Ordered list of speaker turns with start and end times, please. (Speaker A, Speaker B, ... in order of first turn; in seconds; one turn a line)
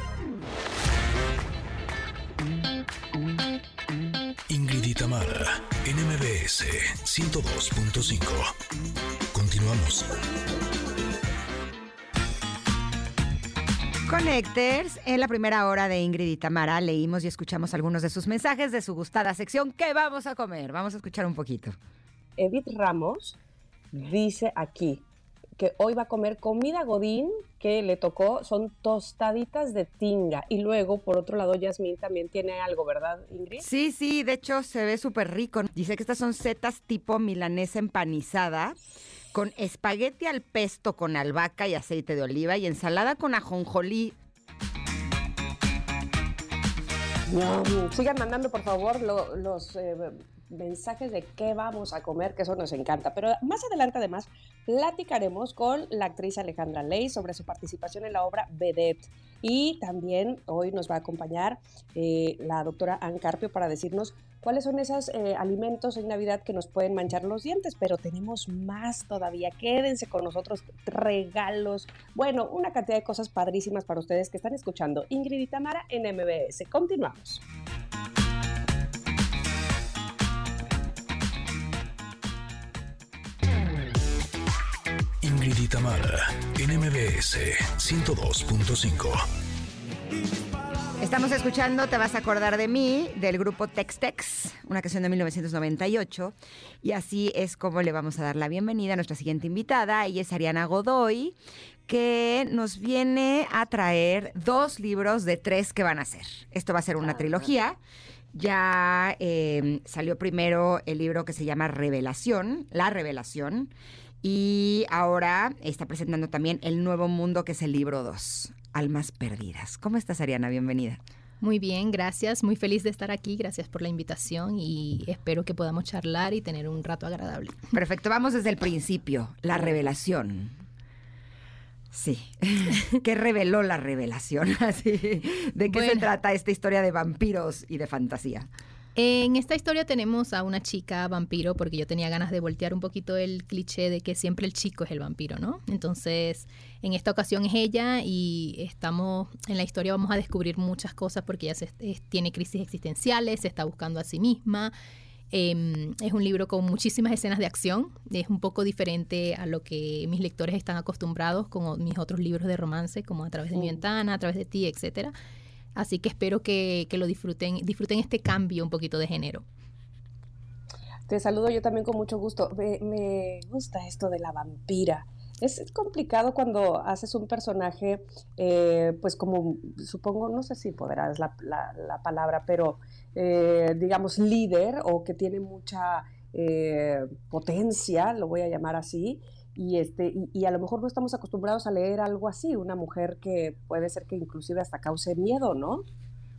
Speaker A: 4.5-8.5
Speaker A: 9.3-10.1
Speaker B: 14.1-21.8
Speaker C: 22.4-23.4
Speaker C: 23.9-25.0
Speaker C: 25.6-33.7
Speaker B: 33.6-38.8
Speaker B: 39.3-44.2
Speaker C: 47.3-77.4
Speaker A: 85.2-89.3
Speaker B: 91.0-101.4
Speaker B: 101.9-107.8
Speaker B: 108.3-113.7
Speaker B: 114.2-121.0
Speaker D: 121.4-127.7
Speaker B: 127.7-130.6
Speaker B: 131.9-138.5
Speaker D: 135.7-136.1
Speaker D: 139.0-154.7
Speaker D: 155.3-165.1
Speaker D: 165.8-169.4
Speaker C: 171.1-195.8